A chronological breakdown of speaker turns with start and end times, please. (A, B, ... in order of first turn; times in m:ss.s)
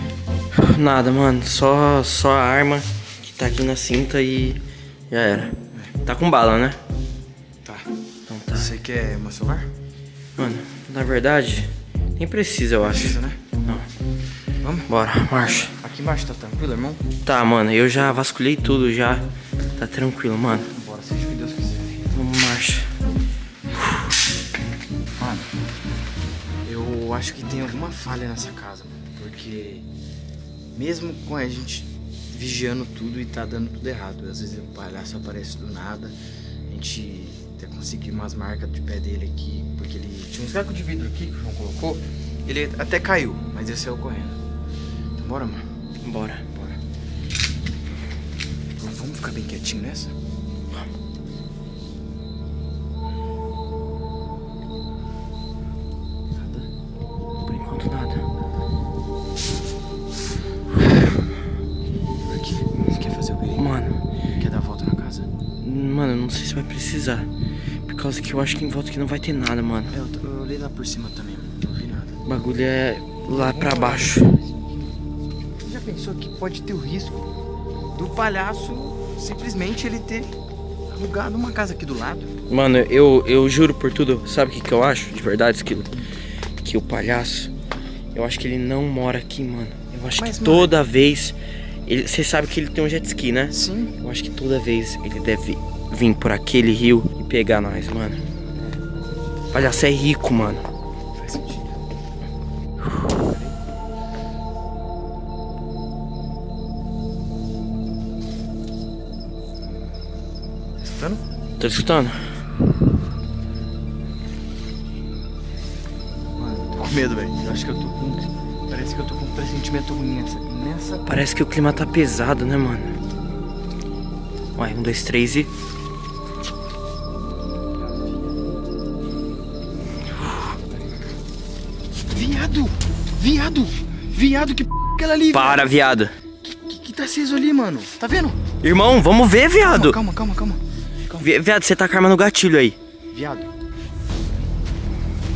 0:00.5-0:06.8 A
0:08.3-0:08.7 A
0:08.5-0:09.7 B
0:10.4-0:13.8 A
0:12.8-0:13.4 B
0:14.6-0:17.0 B
0:14.9-0:15.7 A
0:17.2-0:19.2 A
0:19.8-0:20.7 A
0:20.6-0:22.1 B
0:22.1-0:22.9 A
0:25.2-0:25.5 B
0:26.6-0:29.8 B
0:30.8-0:36.1 B
0:36.7-0:44.4 B
0:45.2-0:45.6 B
0:46.0-0:46.6 A
0:48.8-0:50.1 B
0:56.3-0:56.7 B
0:57.4-0:58.2 A
1:02.2-1:03.7 B
1:03.6-1:04.0 A
1:04.4-1:05.3 B
1:05.6-1:07.3 A
1:07.9-1:09.9 A
1:09.9-1:12.2 B
1:12.2-1:14.3 A
1:13.3-1:14.7 B
1:15.6-1:17.3 B
1:17.9-1:20.3 B
1:20.9-1:22.3 B
1:22.5-1:25.9 A
1:26.6-1:27.5 A
1:28.1-1:31.4 A
1:30.2-1:30.7 B
1:31.9-1:38.2 A
1:33.5-1:33.9 B
1:39.5-1:40.6 A
1:41.1-1:41.8 B
1:43.1-1:43.5 B
1:50.8-1:51.2 B
1:51.6-1:52.2 A
1:56.4-2:01.1 B
2:01.0-2:02.9 A
2:04.6-2:05.5 A
2:12.1-2:15.7 B
2:15.3-2:16.1 A
2:16.4-2:18.4 B
2:18.6-2:20.0 A
2:19.6-2:21.3 B
2:21.2-2:22.8 A
2:23.1-2:23.5 B